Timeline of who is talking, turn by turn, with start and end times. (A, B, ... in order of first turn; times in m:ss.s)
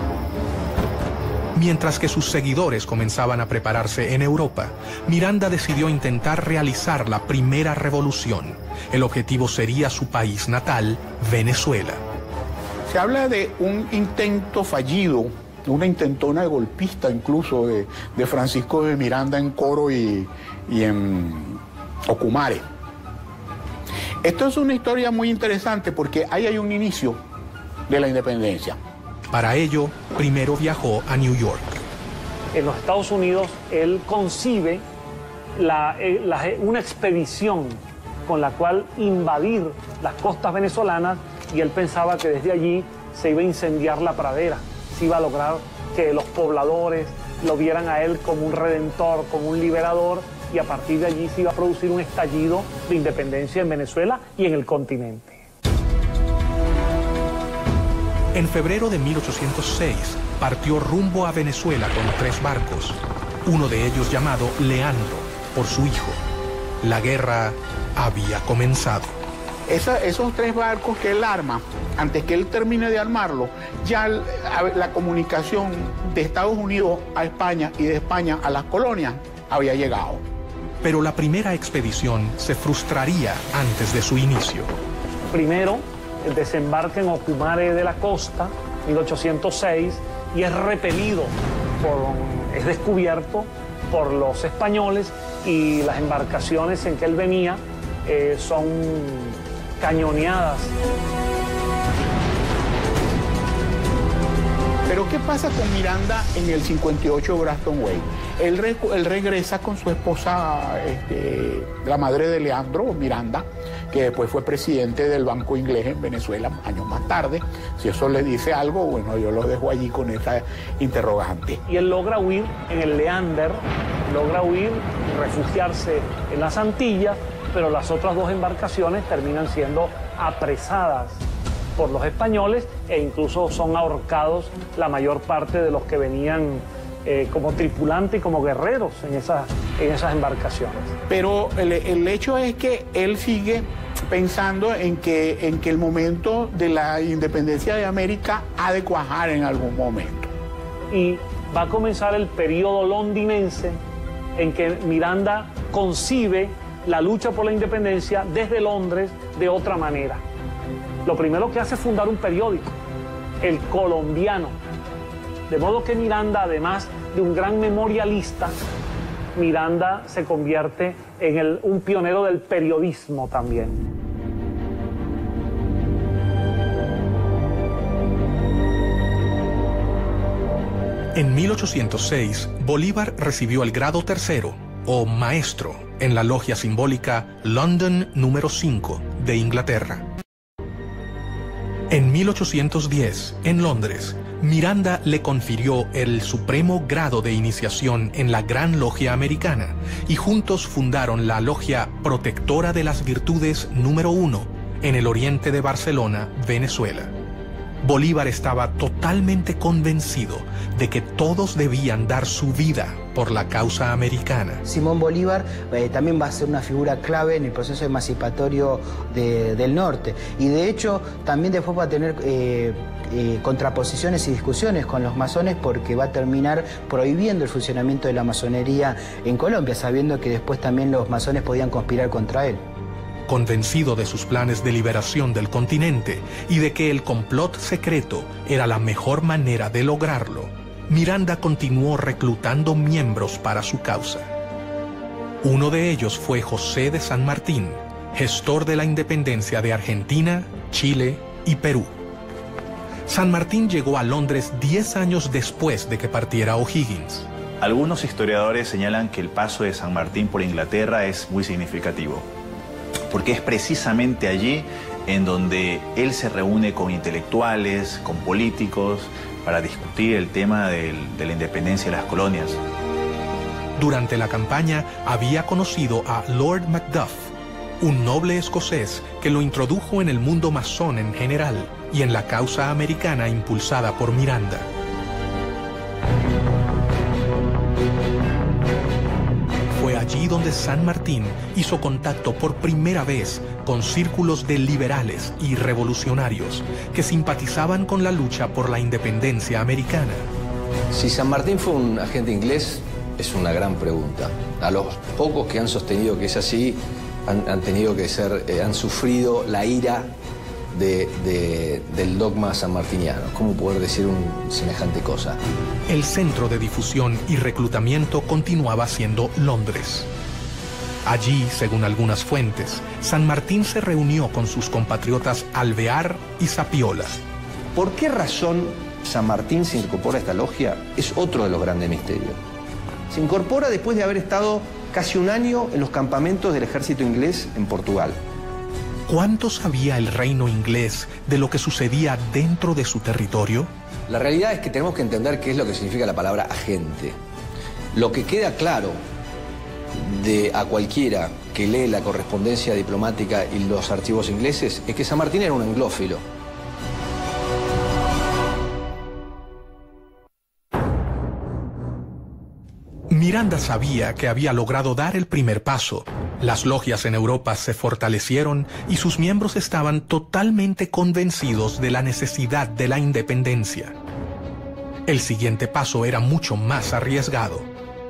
0:01.5-0:12.0 A
0:12.9-0:22.6 B
0:24.2-0:27.2 B
0:27.9-0:28.8 B
0:29.3-0:31.8 A
0:32.5-0:34.8 C
0:35.6-0:55.4 C
0:58.3-1:06.2 A
1:06.8-1:09.1 A
1:09.7-1:20.2 B
1:20.8-1:24.7 A
1:25.3-1:40.7 C
1:44.9-2:01.6 B
2:01.6-2:11.2 C
2:11.8-2:20.9 C
2:21.1-2:30.3 B
2:30.9-2:33.8 C
2:34.4-2:40.2 C
2:41.0-2:42.7 C
2:43.4-2:44.6 C
2:45.5-2:48.5 C
2:49.3-2:53.8 C
3:01.1-3:10.1 A
3:11.9-3:27.1 A
3:27.8-3:34.6 A
3:34.6-3:52.6 D
3:53.3-4:04.3 A
4:05.4-4:11.9 A
4:13.1-4:17.3 A
4:17.6-4:22.3 E
4:23.1-4:32.6 E
4:33.8-4:44.7 A
4:49.7-5:00.2 A
5:00.9-5:10.1 F
5:10.7-5:15.4 F
5:15.9-5:20.1 A
5:21.0-5:27.2 A
5:27.7-5:32.4 F
5:33.1-5:38.2 F
5:39.1-5:43.7 A
5:44.1-5:47.2 F
5:47.9-5:49.0 F
5:49.9-5:56.2 F
6:03.1-6:13.9 A
6:15.1-6:17.7 A